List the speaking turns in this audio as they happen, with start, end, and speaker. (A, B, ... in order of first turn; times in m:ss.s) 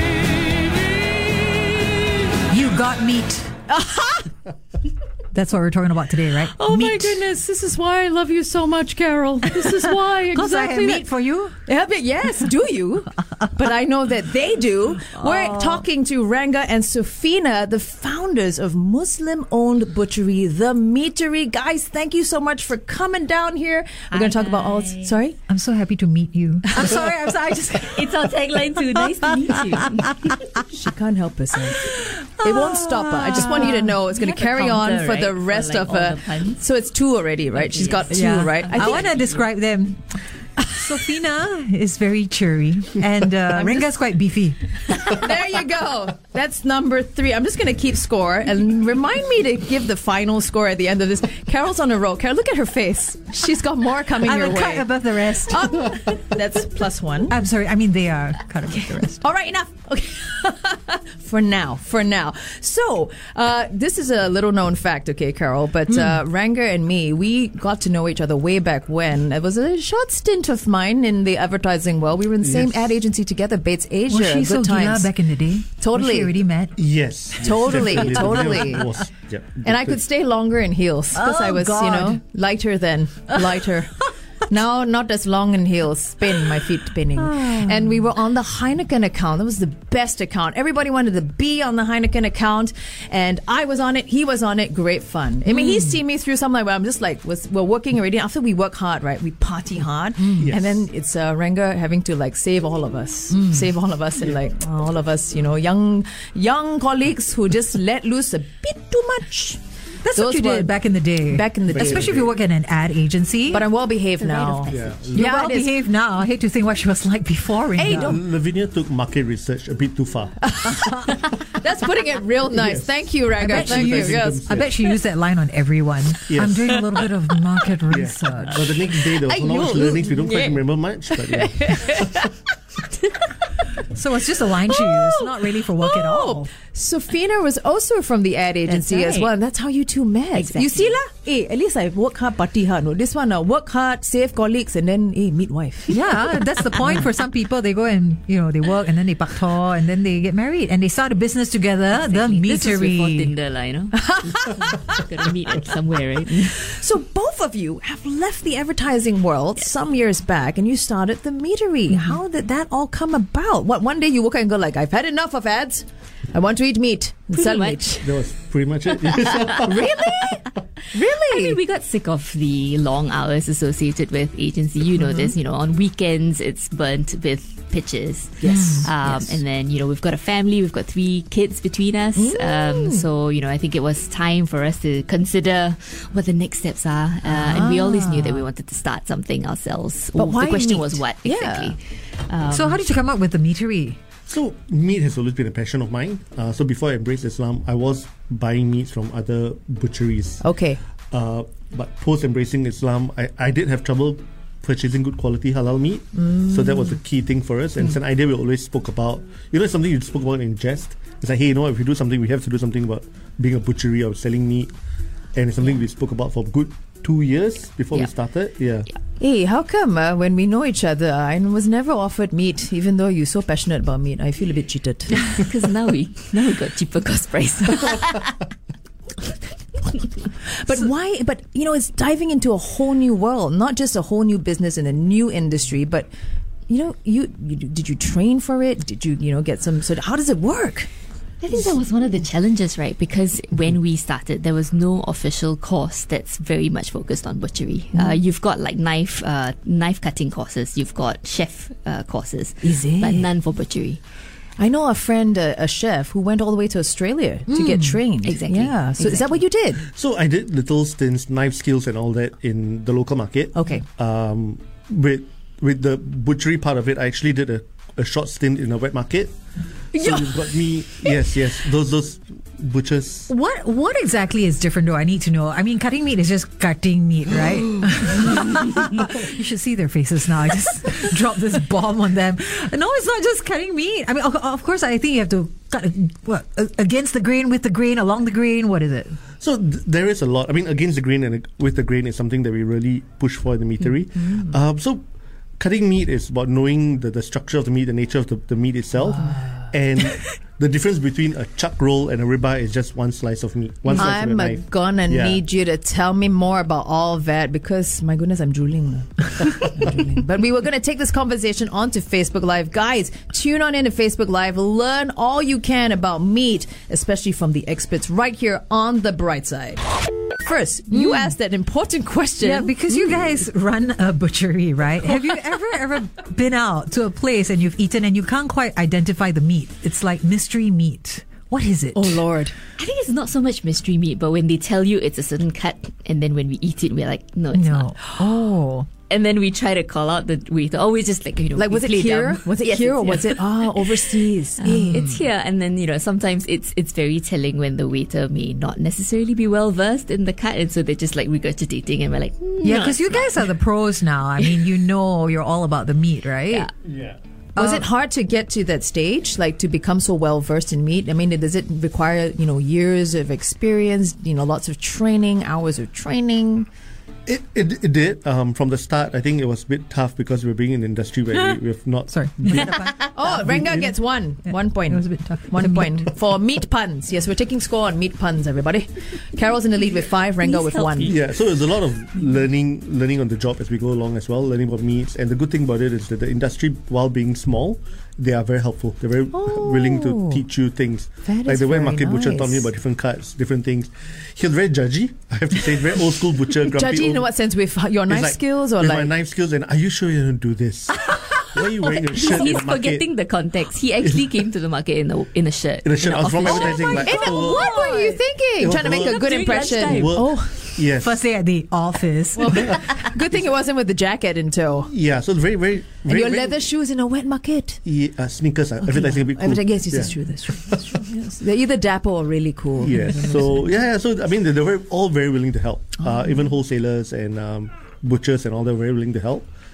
0:02.5-0:03.5 A
0:03.7-0:04.3 B
0:05.3-0:07.2 A
0:06.6-0:11.1 B
0:09.6-0:11.5 A
0:11.6-0:25.4 B
0:15.2-0:15.8 A
0:24.1-0:25.2 C
0:25.5-0:28.3 A
0:27.7-0:30.5 C
0:30.7-0:39.1 B
0:31.8-0:33.9 A
0:34.1-0:36.6 C
0:37.5-0:39.4 C
0:38.0-0:40.0 A
0:40.6-0:44.8 A
0:44.9-0:54.9 B
0:54.1-0:56.0 A
0:55.4-0:57.4 B
0:57.3-0:59.2 A
0:59.2-1:15.1 B
1:12.4-1:13.0 D
1:14.1-1:16.7 A
1:15.8-1:16.3 B
1:16.8-1:20.0 D
1:17.4-1:18.9 B
1:17.8-1:18.9 A
1:19.6-1:49.6 B
1:21.1-1:22.2 A
1:27.2-1:28.0 A
1:35.5-1:36.0 A
1:40.2-1:40.5 A
1:40.4-1:40.8 D
1:43.3-1:43.7 A
1:50.0-1:53.7 A
1:50.1-1:50.7 B
1:51.3-1:52.2 B
1:51.7-1:52.4 D
1:53.5-1:55.7 B
1:54.2-1:55.2 C
1:54.7-1:55.3 D
1:55.1-1:58.2 A
1:57.8-1:58.2 B
1:57.9-2:00.7 D
2:00.5-2:04.5 B
2:02.5-2:04.8 D
2:03.4-2:08.8 A
2:06.2-2:06.9 D
2:07.9-2:12.3 D
2:09.3-2:10.3 B
2:09.3-2:10.6 C
2:11.3-2:12.2 B
2:13.9-2:16.5 A
2:14.8-2:26.0 B
2:18.6-2:19.3 C
2:20.3-2:21.0 C
2:25.9-2:33.3 A
2:31.9-2:36.6 C
2:34.1-2:34.7 B
2:36.6-2:48.0 B
2:47.3-2:48.1 C
2:48.0-2:50.4 D
2:49.2-2:49.6 C
2:49.5-2:51.6 B
2:50.9-3:12.9 C
2:55.0-2:55.3 B
2:58.4-2:59.4 B
2:58.4-2:58.9 A
3:02.2-3:03.0 B
3:07.4-3:08.4 B
3:10.2-3:11.8 B
3:12.5-3:14.0 A
3:14.3-3:20.4 D
3:20.4-3:20.8 B
3:21.1-3:34.7 D
3:26.2-3:26.8 B
3:35.3-3:38.9 D
3:39.2-3:45.4 B
3:45.1-3:48.3 C
3:50.6-3:56.1 B
3:56.7-4:00.9 B
4:01.4-4:14.0 C
4:12.6-4:13.2 B
4:14.6-4:19.8 B
4:17.5-4:18.0 A
4:18.2-4:19.4 C
4:19.8-4:29.3 D
4:23.5-4:23.8 B
4:29.9-4:33.3 D
4:30.0-4:30.2 B
4:33.3-4:49.2 A
4:49.4-4:55.0 D
4:55.6-5:05.4 D
5:03.9-5:23.2 B
5:20.9-5:21.3 A
5:22.4-5:32.2 A
5:31.9-5:32.6 B
5:32.8-5:38.3 C
5:37.5-5:38.9 A
5:39.1-5:53.4 C
5:41.6-5:45.0 B
5:44.6-5:45.2 A
5:52.6-5:56.7 A
5:56.8-5:57.2 D
5:57.6-5:57.9 A
5:57.6-6:06.7 B
6:07.2-6:13.9 D
6:12.1-6:13.3 A
6:13.1-6:21.2 B
6:14.8-6:16.1 A
6:20.4-6:21.2 C
6:21.0-6:37.3 D
6:29.3-6:30.4 B
6:31.2-6:32.6 B
6:36.6-6:39.1 B
6:38.1-6:43.1 D
6:41.8-6:48.2 C
6:45.8-6:47.8 D
6:46.5-6:50.7 B
6:47.8-6:48.1 A
6:48.6-6:51.2 D
6:48.8-6:50.3 C
6:50.9-6:52.9 A
6:52.4-6:54.9 B
6:54.9-6:56.7 D
6:56.0-6:57.8 B
6:57.8-7:00.8 D
6:58.8-7:03.7 B
7:02.8-7:09.5 D